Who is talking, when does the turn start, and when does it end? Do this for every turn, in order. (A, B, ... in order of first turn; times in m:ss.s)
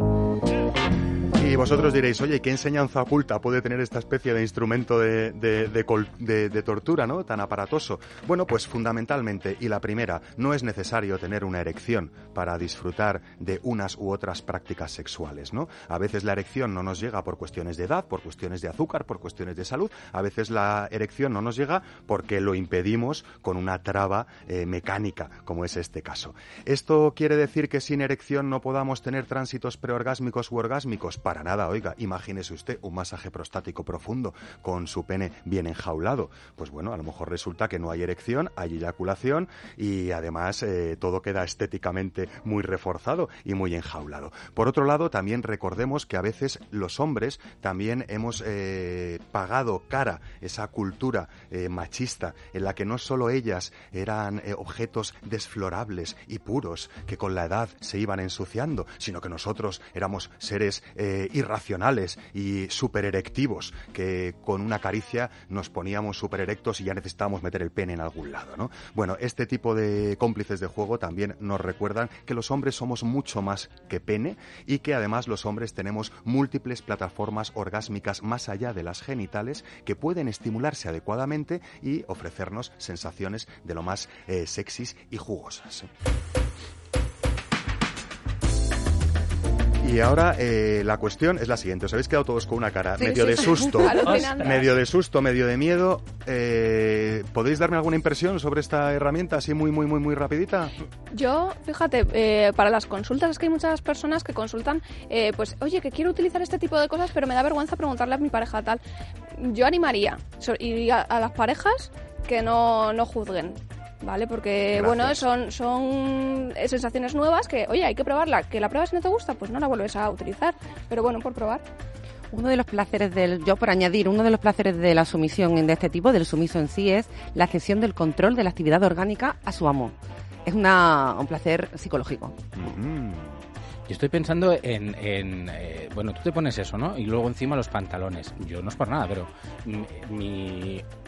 0:01.4-1:25.9 A
1:29.8-1:40.7 A
1:33.0-1:34.1 B
1:33.8-1:34.7 C
1:41.4-1:42.0 C
1:42.7-1:48.8 C
1:49.5-2:01.6 C
1:54.7-1:55.3 A
2:02.3-2:09.9 B
2:10.4-2:12.4 B
2:12.5-2:13.4 A
2:13.9-2:20.8 D